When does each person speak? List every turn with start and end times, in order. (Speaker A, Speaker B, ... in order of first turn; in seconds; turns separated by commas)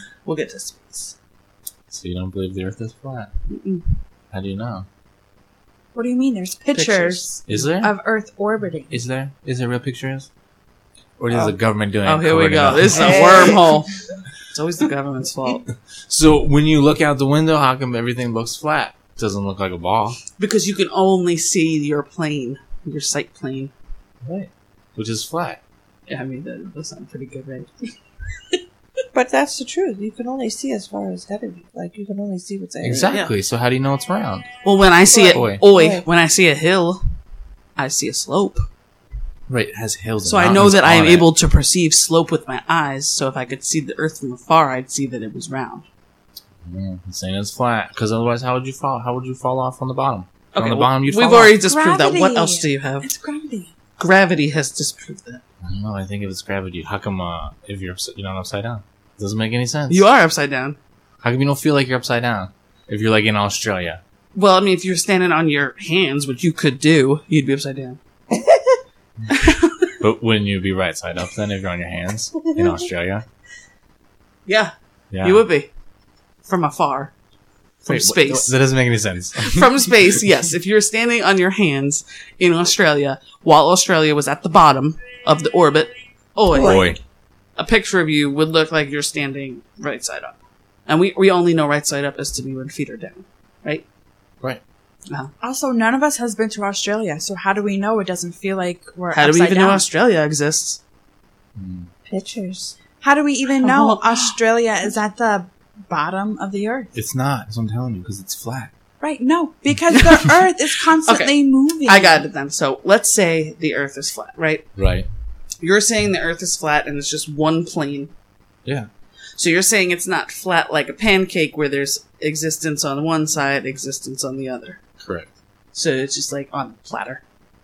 Speaker A: 0.2-1.1, Speaker B: 1.9-3.3, Speaker A: 3.5-3.9, Speaker B: 4.3-4.8, Speaker C: 5.9-9.0, Speaker B: 6.8-7.9, Speaker B: 8.9-10.3, Speaker B: 11.2-13.2, Speaker A: 12.0-13.9, Speaker D: 12.9-13.8, Speaker A: 14.5-15.7, Speaker B: 16.1-20.2, Speaker A: 20.4-23.7, Speaker B: 24.2-25.6, Speaker A: 26.1-27.7, Speaker D: 29.1-33.1, Speaker B: 32.8-34.5, Speaker A: 33.1-33.3, Speaker A: 34.6-37.0, Speaker D: 35.1-36.0, Speaker B: 35.3-35.6, Speaker A: 37.8-38.6, Speaker B: 39.5-41.3, Speaker A: 40.2-45.9, Speaker B: 46.6-51.6, Speaker A: 50.5-53.1, Speaker C: 51.6-53.7, Speaker A: 54.0-55.4, Speaker B: 55.6-60.1, Speaker A: 59.9-60.8, Speaker B: 61.2-64.0, Speaker A: 64.3-68.0, Speaker D: 68.3-68.8, Speaker A: 69.3-69.9, Speaker B: 70.0-73.2, Speaker D: 72.6-72.8, Speaker A: 74.5-75.7, Speaker B: 75.1-75.4, Speaker A: 76.4-77.1, Speaker A: 77.8-78.5, Speaker B: 77.9-80.2, Speaker A: 79.4-86.9, Speaker D: 86.5-86.9, Speaker B: 86.5-87.0, Speaker A: 87.6-90.3, Speaker A: 90.9-93.8, Speaker C: 95.4-99.8, Speaker A: 99.1-100.8, Speaker B: 101.6-101.9, Speaker D: 102.1-102.7, Speaker C: 103.0-106.9, Speaker A: 103.6-104.4, Speaker B: 106.9-108.7, Speaker C: 109.0-112.2, Speaker A: 111.0-114.7, Speaker B: 114.8-115.1, Speaker A: 115.6-118.1, Speaker A: 119.3-124.8, Speaker B: 125.0-125.3, Speaker A: 125.7-127.2